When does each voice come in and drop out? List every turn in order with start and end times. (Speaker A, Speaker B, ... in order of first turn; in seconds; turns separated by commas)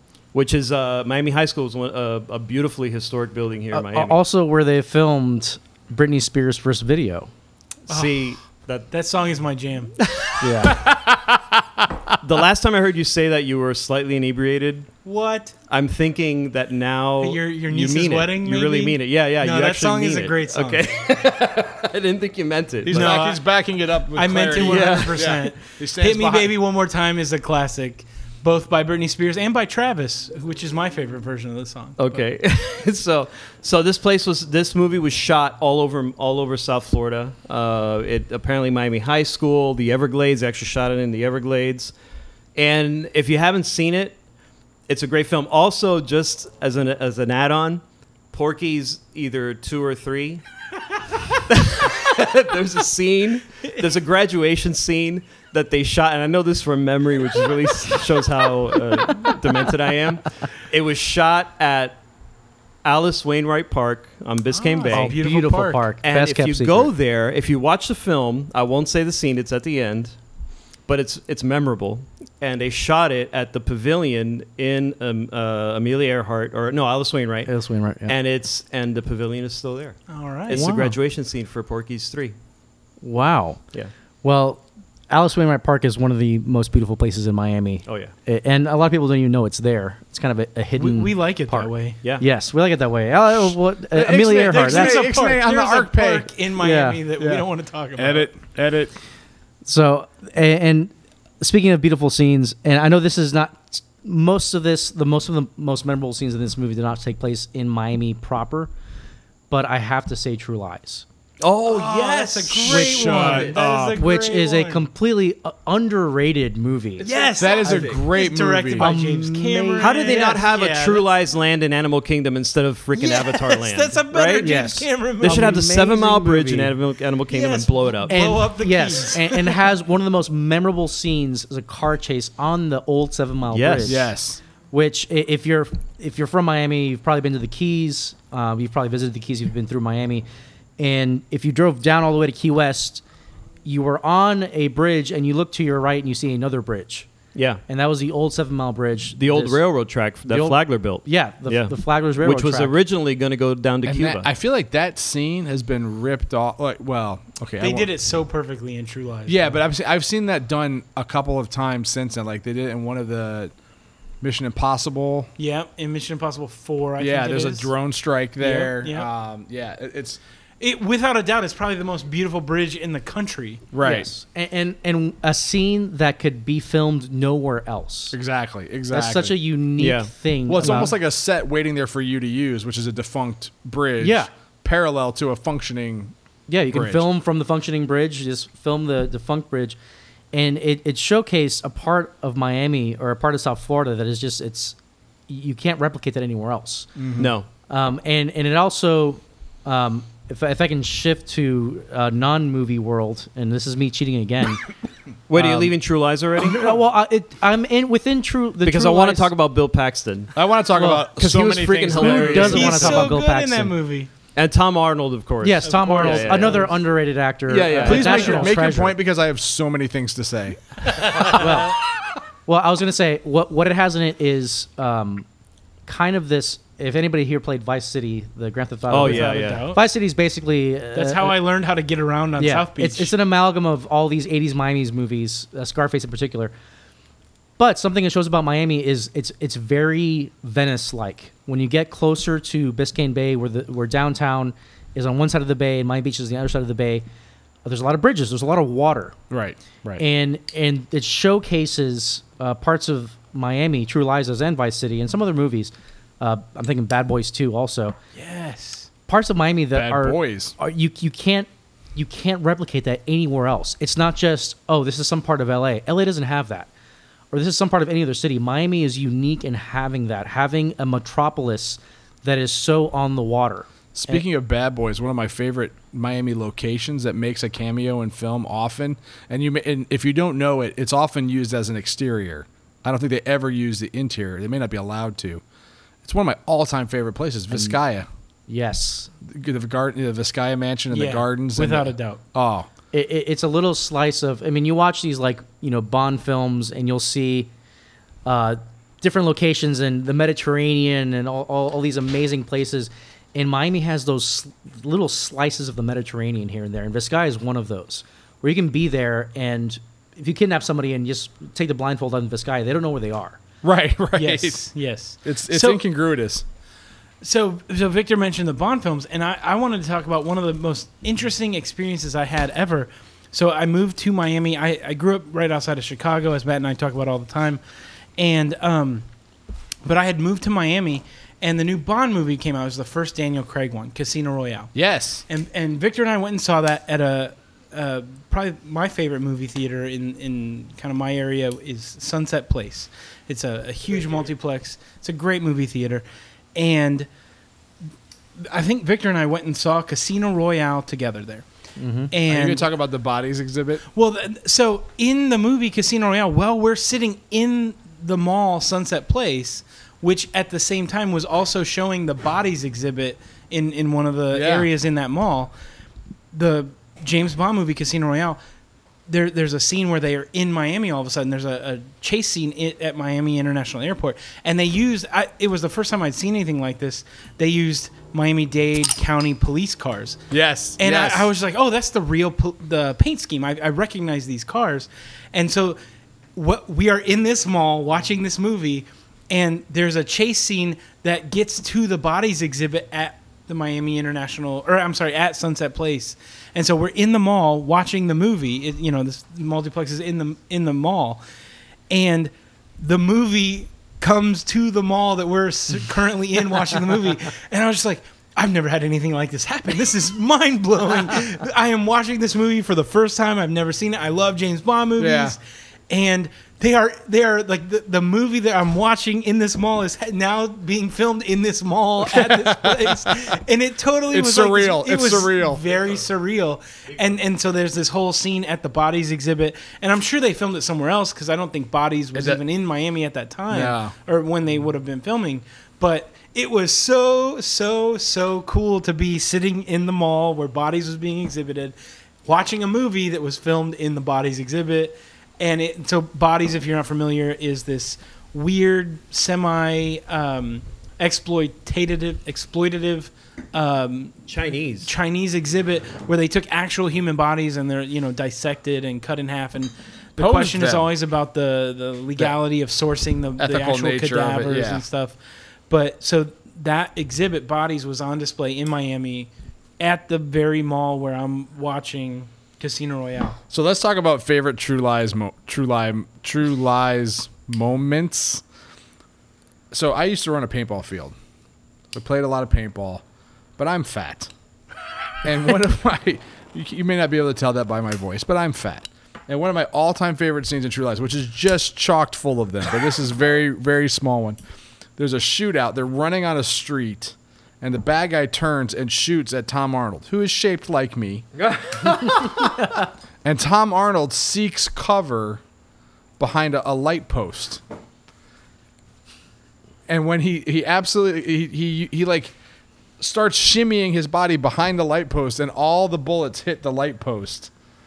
Speaker A: 0.3-4.2, Speaker B: 3.7-7.3, Speaker A: 7.9-8.9, Speaker C: 7.9-8.2, Speaker C: 8.9-9.9, Speaker A: 10.0-10.7, Speaker B: 10.4-10.8, Speaker D: 10.4-11.4, Speaker A: 12.2-14.9, Speaker C: 15.0-15.5, Speaker A: 15.7-23.2, Speaker C: 17.2-20.9, Speaker D: 22.8-26.6, Speaker C: 22.9-23.4, Speaker C: 24.1-32.2, Speaker A: 24.6-25.5, Speaker A: 32.0-41.9, Speaker A: 42.5-44.1, Speaker A: 44.9-50.4, Speaker A: 51.5-62.0, Speaker A: 62.8-65.2, Speaker C: 64.5-65.8, Speaker B: 64.9-66.9, Speaker A: 66.0-70.1, Speaker A: 70.9-77.5, Speaker B: 77.5-78.2, Speaker A: 78.0-82.3, Speaker C: 80.1-80.6, Speaker B: 80.5-81.0, Speaker B: 83.0-83.6, Speaker B: 84.2-95.1, Speaker A: 87.8-88.1, Speaker C: 90.8-92.0, Speaker D: 93.3-96.3, Speaker C: 94.5-98.3, Speaker B: 96.6-97.0, Speaker D: 97.2-97.5, Speaker D: 98.0-98.9, Speaker B: 99.6-108.7, Speaker B: 109.5-111.0, Speaker A: 111.4-113.3, Speaker C: 111.7-114.8, Speaker B: 112.7-117.1, Speaker D: 112.7-114.0, Speaker A: 117.0-117.9, Speaker C: 117.0-121.1, Speaker D: 117.4-118.9, Speaker B: 118.8-120.4, Speaker A: 119.8-124.6, Speaker C: 122.9-125.6, Speaker B: 124.4-126.7, Speaker A: 125.2-128.1, Speaker C: 127.3-129.6, Speaker B: 128.1-134.1, Speaker A: 133.5-134.0, Speaker D: 133.8-134.4, Speaker B: 134.7-140.2, Speaker B: 140.8-143.0, Speaker B: 143.6-147.1, Speaker A: 147.3-147.6, Speaker B: 147.7-149.6, Speaker A: 149.2-154.3, Speaker B: 150.3-152.7, Speaker D: 153.8-157.9, Speaker C: 157.6-159.6, Speaker D: 159.3-163.5, Speaker D: 164.2-165.3, Speaker C: 165.4-167.7, Speaker D: 167.0-170.2, Speaker C: 168.4-169.1, Speaker C: 170.6-173.6, Speaker D: 173.7-174.1, Speaker B: 173.8-178.2, Speaker D: 178.1-179.3, Speaker B: 178.9-180.9, Speaker A: 179.8-180.1, Speaker D: 180.5-186.1, Speaker B: 184.0-184.3, Speaker B: 186.5-189.8, Speaker D: 186.7-187.1, Speaker B: 190.3-194.8, Speaker B: 195.3-196.9, Speaker D: 196.9-197.3, Speaker A: 197.2-197.5, Speaker B: 197.7-204.6, Speaker A: 205.3-206.8, Speaker B: 205.3-205.7, Speaker B: 206.4-209.3, Speaker A: 208.6-210.3, Speaker D: 210.3-213.1, Speaker B: 210.7-211.2, Speaker A: 211.2-213.1, Speaker B: 211.9-213.8, Speaker C: 212.5-214.1, Speaker A: 214.3-216.7, Speaker B: 215.4-218.9, Speaker C: 215.6-216.7, Speaker D: 217.5-220.7, Speaker C: 217.8-218.5, Speaker B: 221.2-221.8, Speaker B: 222.4-225.2, Speaker B: 225.8-231.4, Speaker A: 228.9-229.6, Speaker C: 228.9-229.8, Speaker C: 230.9-233.1, Speaker B: 232.4-236.5, Speaker B: 237.6-247.0, Speaker B: 247.6-249.2, Speaker D: 249.3-250.0, Speaker B: 250.0-257.9, Speaker C: 258.1-258.9, Speaker B: 259.1-266.7, Speaker D: 259.7-260.6, Speaker B: 267.3-274.2, Speaker D: 273.9-285.4, Speaker D: 286.0-288.1, Speaker B: 287.5-287.8, Speaker B: 288.5-289.1, Speaker D: 289.2-292.7, Speaker C: 290.9-292.2, Speaker B: 292.9-297.5, Speaker B: 298.2-313.4, Speaker D: 313.6-314.6, Speaker C: 314.1-315.8, Speaker D: 315.2-316.4, Speaker C: 317.2-327.6, Speaker C: 328.2-329.1, Speaker C: 329.8-334.7, Speaker D: 334.7-335.2, Speaker C: 335.3-346.0, Speaker C: 346.5-347.1, Speaker C: 348.4-351.4, Speaker B: 351.8-352.1, Speaker C: 352.1-352.7, Speaker D: 352.3-353.8, Speaker C: 353.9-365.5, Speaker D: 364.3-364.7, Speaker C: 366.3-368.4, Speaker C: 369.1-380.2, Speaker D: 380.3-381.3, Speaker C: 380.8-385.8, Speaker C: 386.3-401.2, Speaker C: 401.9-454.2, Speaker D: 415.0-415.4, Speaker D: 422.0-423.1, Speaker D: 424.1-425.6, Speaker A: 425.7-426.0, Speaker D: 432.1-432.4, Speaker D: 433.5-433.9, Speaker A: 454.2-454.9, Speaker C: 454.8-465.2, Speaker D: 460.2-460.9, Speaker D: 463.4-464.8, Speaker C: 465.7-473.4, Speaker D: 473.5-478.4, Speaker D: 479.7-481.1, Speaker D: 481.9-483.0, Speaker D: 483.6-484.3, Speaker D: 485.2-494.4, Speaker D: 495.0-501.2, Speaker A: 501.4-502.5, Speaker D: 503.2-505.4, Speaker D: 506.2-507.6, Speaker D: 509.9-512.3, Speaker D: 513.0-517.5